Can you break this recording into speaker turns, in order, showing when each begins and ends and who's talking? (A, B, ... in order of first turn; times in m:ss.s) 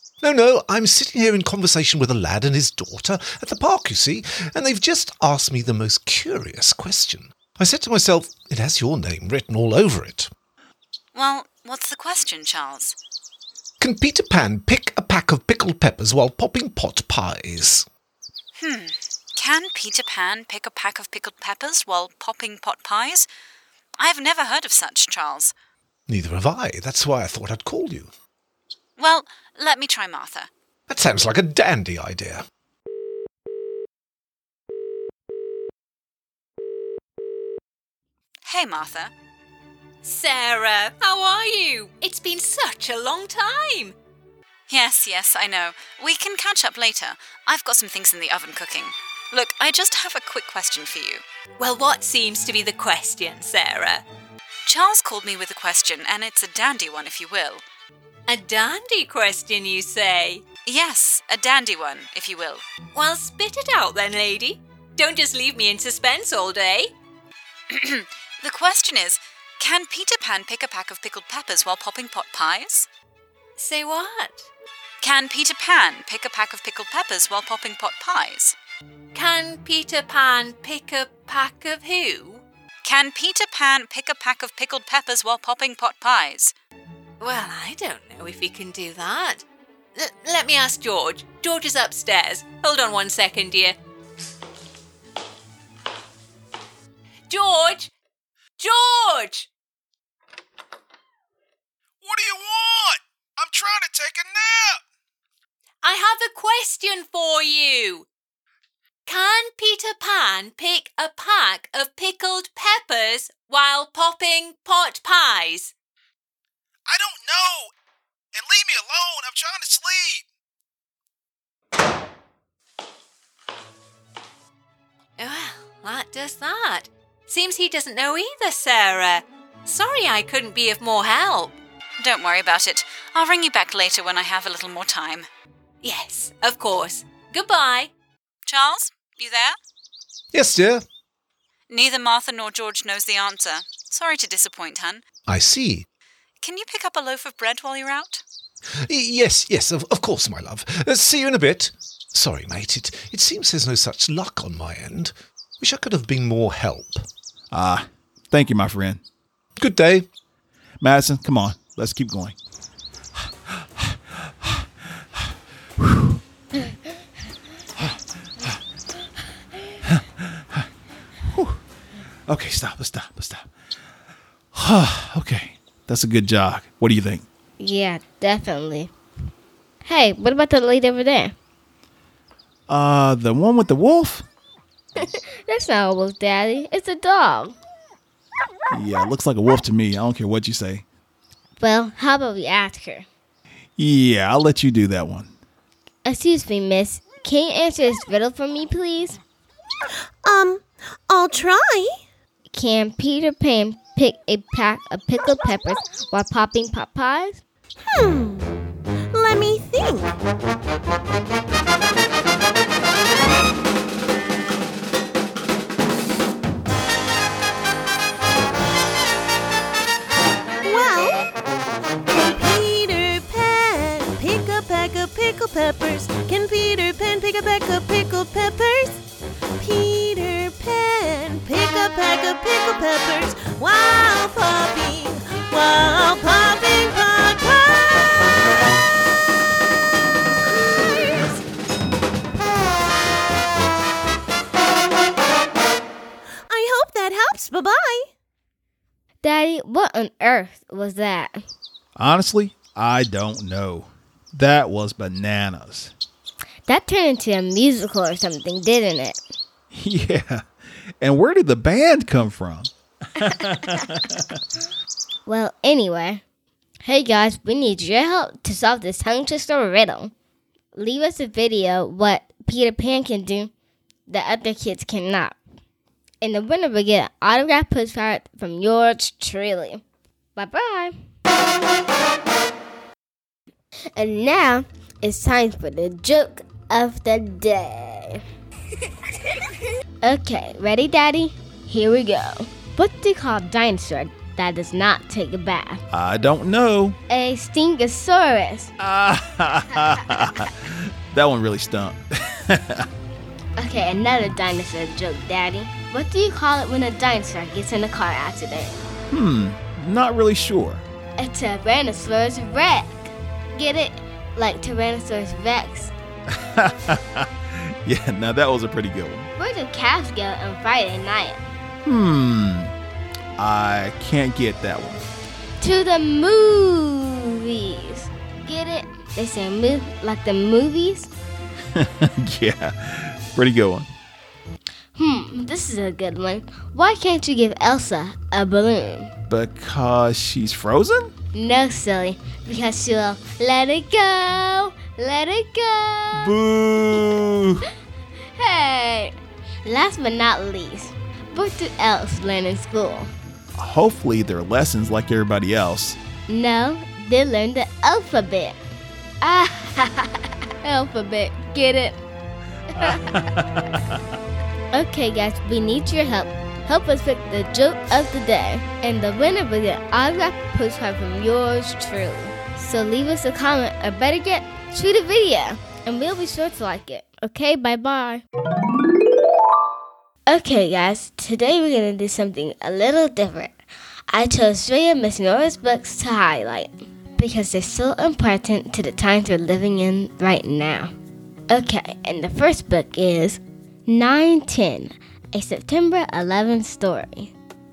0:00.2-0:10.3 A
0:11.1-0:13.0 B
0:13.8-0:17.9 A
0:18.6-0:23.3 B
0:24.0-0:25.5 B
0:26.1-0:28.1 A
0:29.0-0:30.5 B
0:30.9-0:32.4 A
0:38.4-0:39.1 B
0:40.0-0:44.0 C
0:44.7-0:51.2 B
0:51.6-0:54.0 C
0:54.6-0:57.6 B
0:58.3-1:00.5 C
1:00.6-1:02.6 B
1:02.9-1:06.9 C
1:07.7-1:12.9 B
1:13.6-1:14.5 C
1:15.0-1:18.6 B
1:19.1-1:22.4 C
1:22.8-1:26.6 B
1:27.2-1:29.4 C
1:30.0-1:33.8 C
1:37.3-1:37.9 C
1:38.6-1:39.5 C
1:42.0-1:44.8 D
1:45.8-1:48.1 C
1:49.1-1:55.7 C
1:56.9-1:57.7 D
1:58.3-2:00.2 D
2:05.2-2:11.6 C
2:12.0-2:15.3 B
2:15.8-2:17.9 C
2:18.5-2:19.6 B
2:20.3-2:20.8 A
2:21.7-2:25.0 B
2:25.3-2:25.9 A
2:26.4-2:28.2 B
2:28.8-2:37.1 A
2:37.5-2:39.0 D
2:39.6-2:40.1 A
2:40.8-2:42.4 D
2:43.2-2:45.3 D
2:45.8-2:46.2 D
2:47.8-2:48.6 D
2:49.8-2:50.7 D
2:51.3-2:51.6 D
2:52.3-2:53.5 D
2:54.5-2:57.2 D
2:57.6-2:58.9 E
2:59.8-3:01.4 E
3:02.7-3:04.2 D
3:05.0-3:07.6 E
3:08.7-3:10.8 D
3:11.6-3:13.1 E
3:13.8-3:15.3 D
3:16.0-3:19.2 E
3:20.2-3:22.0 F
3:22.5-3:27.4 E
3:27.9-3:28.5 F
3:29.1-3:30.1 F
3:40.6-3:41.2 F
3:42.1-3:49.0 F
3:49.6-3:58.2 F
4:00.6-4:01.4 F
4:06.5-4:08.1 F
4:09.2-4:11.4 E
4:12.0-4:15.9 D
4:16.7-4:19.2 E
4:19.7-4:20.5 D
4:21.0-4:24.4 D
4:25.3-4:26.2 E
4:26.8-4:30.1 E
4:30.8-4:33.5 E
4:34.1-4:35.4 E
4:36.2-4:39.8 E
4:40.4-4:41.0 E
4:44.0-4:48.2 E
4:50.0-4:55.8 E
4:55.9-4:57.0 D
4:57.1-4:58.7 E
4:58.8-5:02.9 D
5:03.6-5:08.8 E
5:09.1-5:10.8 D
5:11.2-5:15.9 E
5:16.3-5:19.3 D
5:19.4-5:21.4 E
5:21.8-5:22.7 D
5:23.4-5:25.0 D
5:25.6-5:31.1 E
5:31.7-5:33.9 D
5:35.0-5:39.1 E
5:39.3-5:41.1 D
5:41.3-5:46.4 E
5:46.1-5:47.6 D
5:48.4-5:53.1 E
5:53.6-5:56.0 D
5:56.3-5:58.6 E
5:59.2-6:02.0 E
6:02.8-6:04.0 D
6:04.7-6:18.2 E
6:20.3-6:23.5 E
6:24.1-6:30.9 E
6:31.5-6:37.3 E